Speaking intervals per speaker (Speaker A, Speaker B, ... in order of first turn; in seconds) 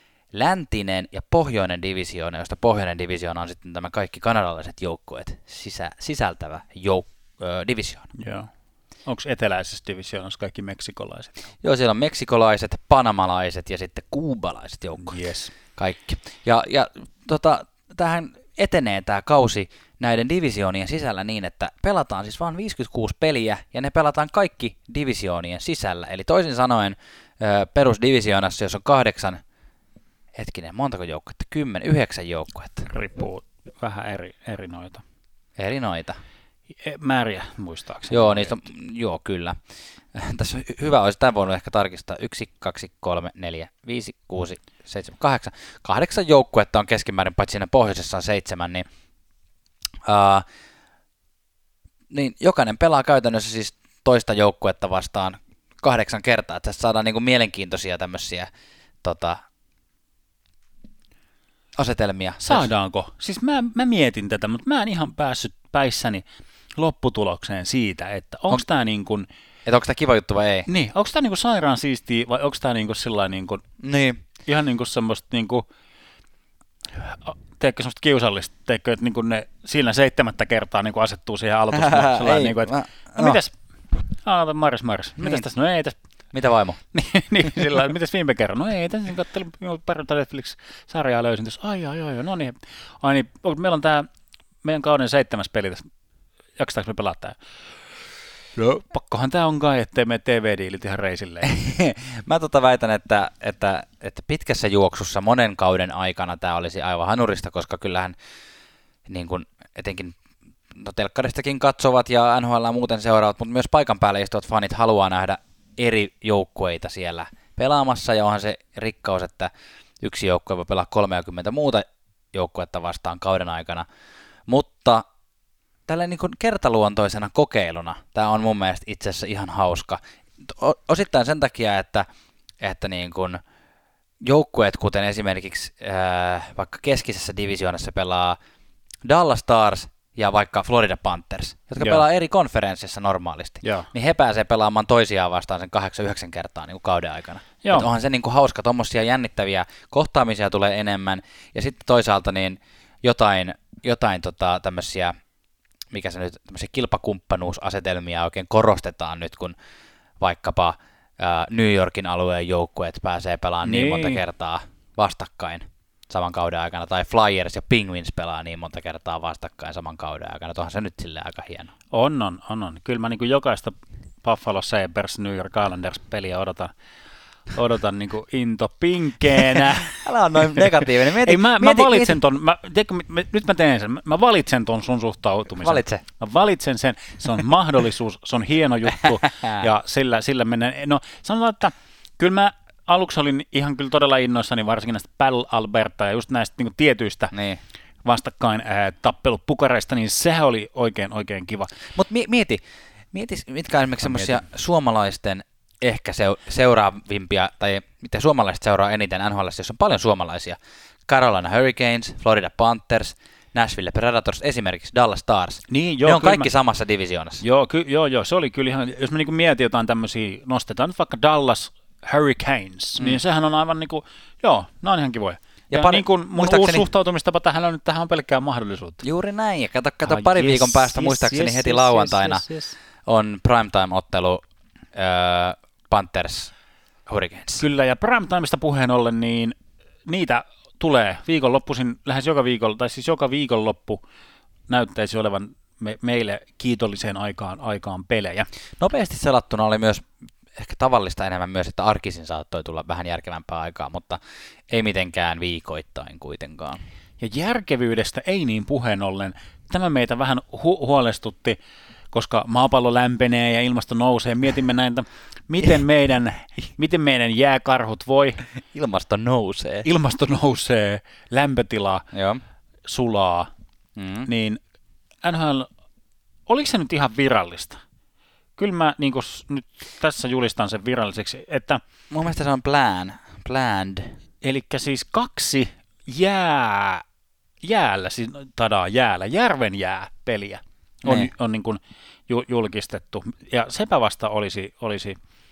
Speaker A: 0.3-8.1, 11.6-29.4, 30.4-32.9, 35.6-36.2, 38.1-39.6, 40.1-48.9, 50.0-50.5, 52.1-58.5, 59.0-59.4, 61.8-62.7, 69.7-70.7, 73.8-74.2, 81.8-83.4, 85.2-85.5, 86.3-86.8, 101.5-108.2, 109.1-110.2, 110.7-123.9, 124.5-125.1, 125.9-132.1, 132.6-133.4, 134.2-138.4, 139.0-155.2, 155.9-159.6, 160.2-171.7, 179.9-182.2, 185.6-186.0, 189.2-189.7, 197.3-197.6, 201.9-217.4, 225.7-226.9, 229.0-236.5, 237.1-237.6, 248.8-254.2, 254.7-256.8, 268.7-269.9, 272.1-272.4, 273.9-274.3, 282.1-284.2, 291.1-291.3
Speaker B: 8.2-8.5, 9.1-11.3, 15.0-15.5, 32.9-35.0, 36.8-38.6, 62.4-66.2, 66.8-69.3, 70.7-73.6, 74.4-75.7, 77.0-86.0, 86.9-94.1, 94.6-95.9, 96.6-97.4, 98.6-101.6, 143.6-143.9, 147.6-147.9, 163.6-164.2, 171.9-176.7, 177.5-197.3, 198.0-201.7, 204.0-204.4, 215.7-216.5, 217.4-229.0, 230.0-232.8, 237.5-244.0, 244.7-248.5, 257.2-261.6, 262.1-268.4, 269.8-272.1, 272.8-273.5, 274.2-274.6, 275.2-275.7, 276.5-277.8, 278.6-281.8, 284.4-287.0, 287.6-295.2